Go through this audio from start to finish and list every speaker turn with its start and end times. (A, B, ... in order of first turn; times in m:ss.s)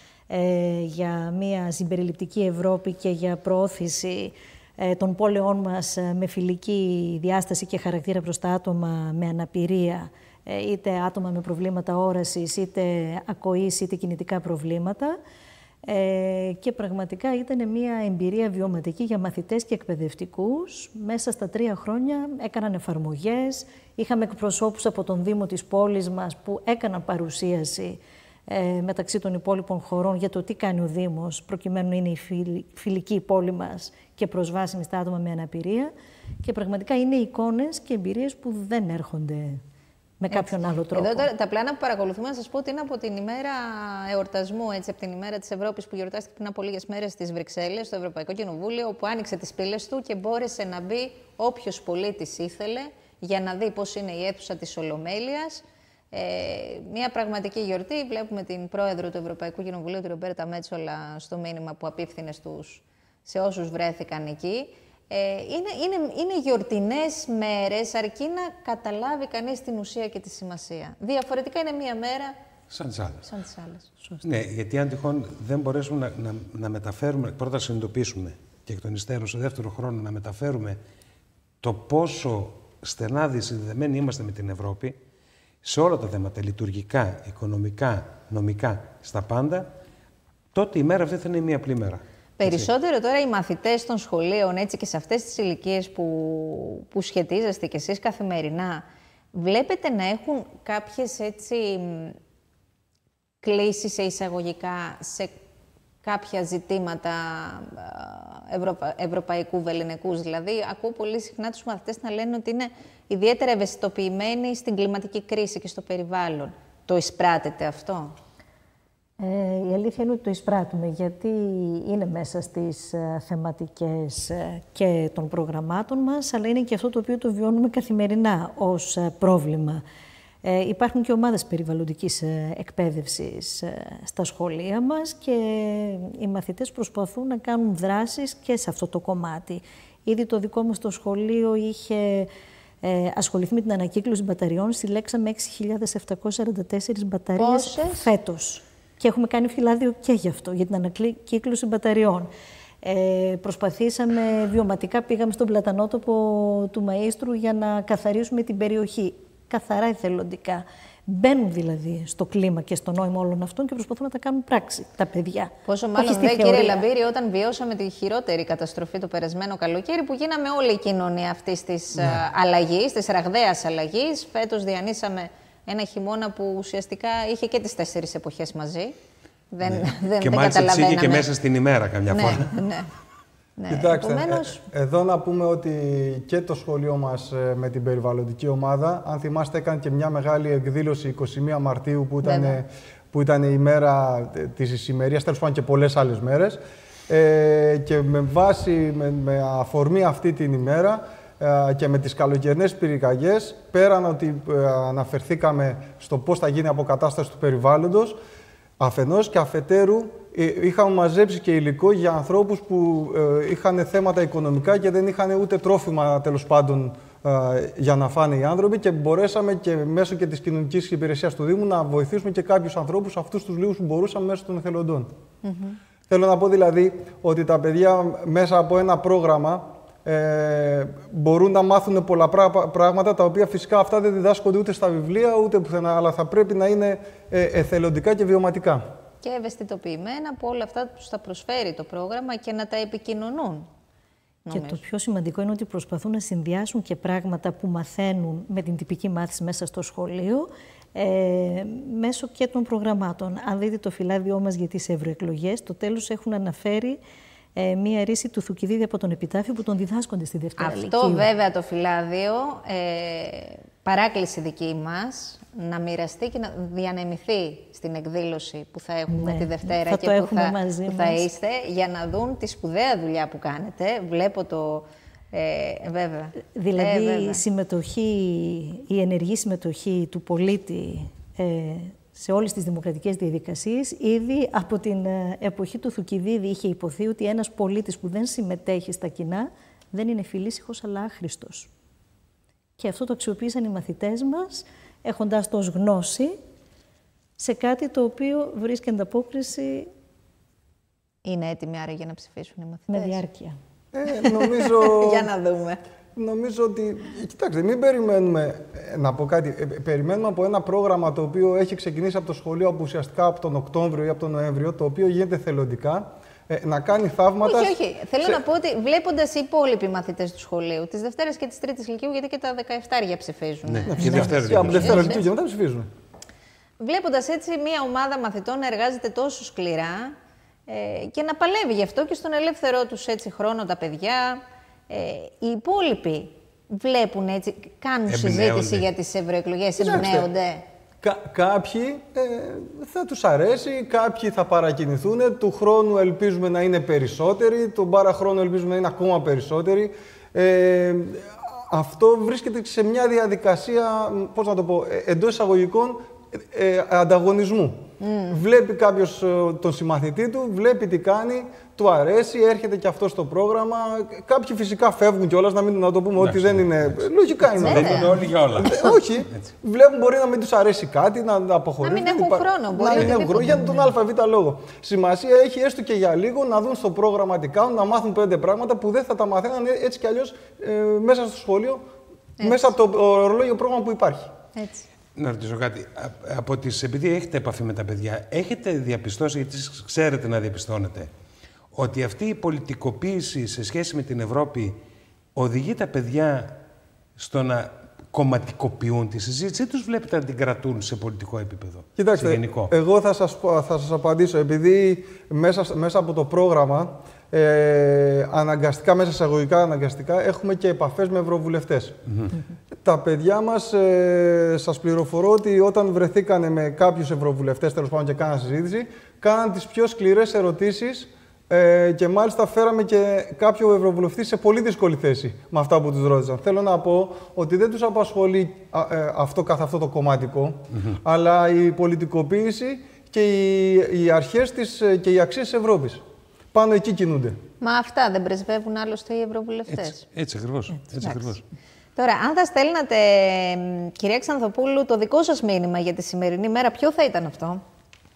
0:00.3-0:15.2 A
0:15.8-0:39.6 A
0:40.2-0:41.3 A
0:40.3-1:12.4 B
1:12.7-1:13.2 C
1:13.2-1:13.9 B
1:14.2-1:20.8 C
1:21.6-1:25.0 C
1:25.6-1:29.7 C
1:30.5-1:32.7 C
1:32.4-1:42.2 B
1:43.4-1:45.4 B
1:46.0-1:58.1 B
1:59.2-2:09.8 A
2:10.4-2:22.3 A
2:22.8-2:32.3 A
2:27.4-2:28.1 B
2:32.8-2:46.8 A
2:45.6-2:58.9 B
2:59.5-3:01.3 B
2:59.6-3:02.6 C
3:02.1-3:02.9 B
3:03.6-3:04.6 B
3:03.7-3:28.2 D
3:12.2-3:12.6 B
3:28.8-3:45.1 D
3:45.4-3:45.8 B
3:46.1-3:58.8 D
3:59.2-4:03.7 B
4:04.4-4:04.8 B
4:04.5-4:17.0 A
4:17.6-4:21.3 A
4:20.6-4:37.4 B
4:29.1-4:31.3 A
4:36.5-4:51.7 A
4:52.8-4:56.4 A
4:57.4-4:59.9 A
5:01.2-5:03.2 B
5:02.9-5:03.5 A
5:03.9-5:05.3 D
5:04.3-5:05.8 B
5:06.2-5:18.4 D
5:17.4-5:25.2 B
5:23.7-5:25.2 C
5:23.9-5:25.8 D
5:24.0-5:24.4 A
5:26.8-5:30.1 B
5:30.7-5:40.6 B
5:38.1-5:38.9 C
5:39.8-5:40.3 D
5:41.0-6:21.8 D
5:58.0-5:58.4 B
6:06.2-6:09.4 C
6:07.6-6:08.2 B
6:11.8-6:13.8 B
6:22.4-6:22.7 B
6:22.4-6:24.3 D
6:24.6-6:24.9 B
6:25.2-6:31.1 C
6:31.7-6:34.7 C
6:35.4-6:36.6 C
6:37.2-6:42.7 C
6:42.0-6:52.0 D
6:52.8-7:16.0 D
7:16.5-7:17.4 D
7:17.6-7:20.0 B
7:19.7-7:21.4 C
7:21.0-7:21.3 B
7:22.0-7:27.6 B